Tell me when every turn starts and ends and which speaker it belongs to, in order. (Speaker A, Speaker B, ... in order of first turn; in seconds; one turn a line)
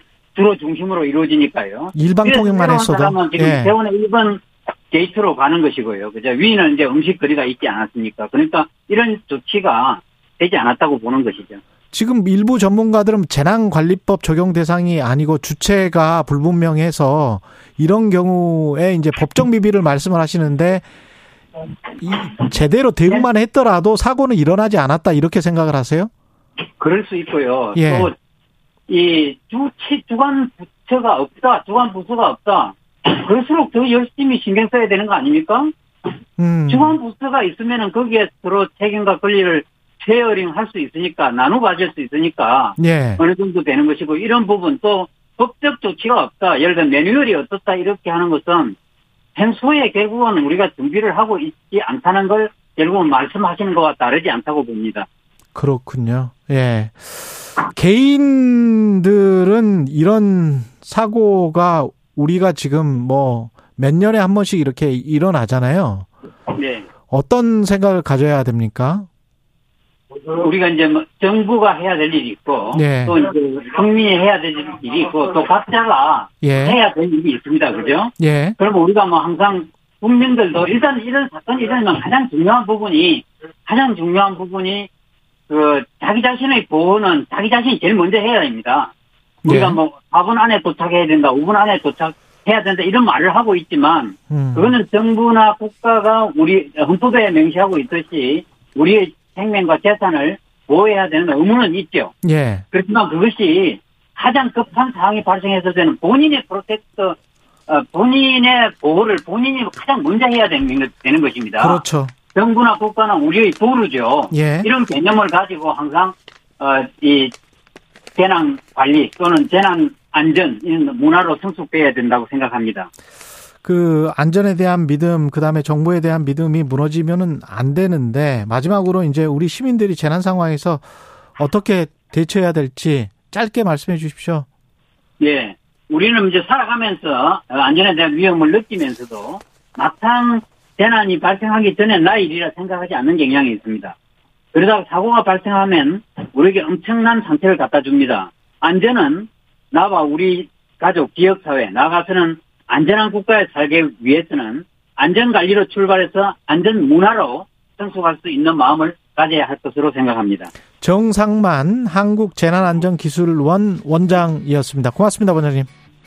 Speaker A: 0.3-11.6
Speaker B: 1.9-3.7
Speaker B: 11.9-20.8
Speaker B: 22.0-26.1
Speaker A: 26.8-28.1
Speaker B: 27.8-28.1
Speaker A: 28.9-35.7
Speaker B: 36.4-37.0
Speaker A: 36.7-48.8
Speaker B: 42.8-43.2
Speaker A: 49.4-55.1
Speaker B: 55.5-66.1
Speaker A: 66.5-66.9
Speaker B: 67.1-69.1
Speaker A: 70.2-84.9
Speaker B: 72.7-73.2
Speaker B: 76.4-76.8
Speaker B: 78.2-78.6
Speaker A: 85.5-88.9
Speaker B: 89.4-89.8
Speaker A: 89.5-102.1
Speaker B: 94.3-94.8
Speaker B: 102.2-102.7
Speaker A: 102.7-107.2
Speaker A: 107.7-111.8
Speaker B: 111.6-112.1
Speaker A: 112.3-117.3
Speaker B: 114.3-114.7
Speaker A: 118.2-122.9
Speaker B: 123.6-130.8
Speaker B: 131.4-134.5
Speaker A: 135.2-143.9
Speaker A: 144.5-160.5
Speaker B: 160.8-165.7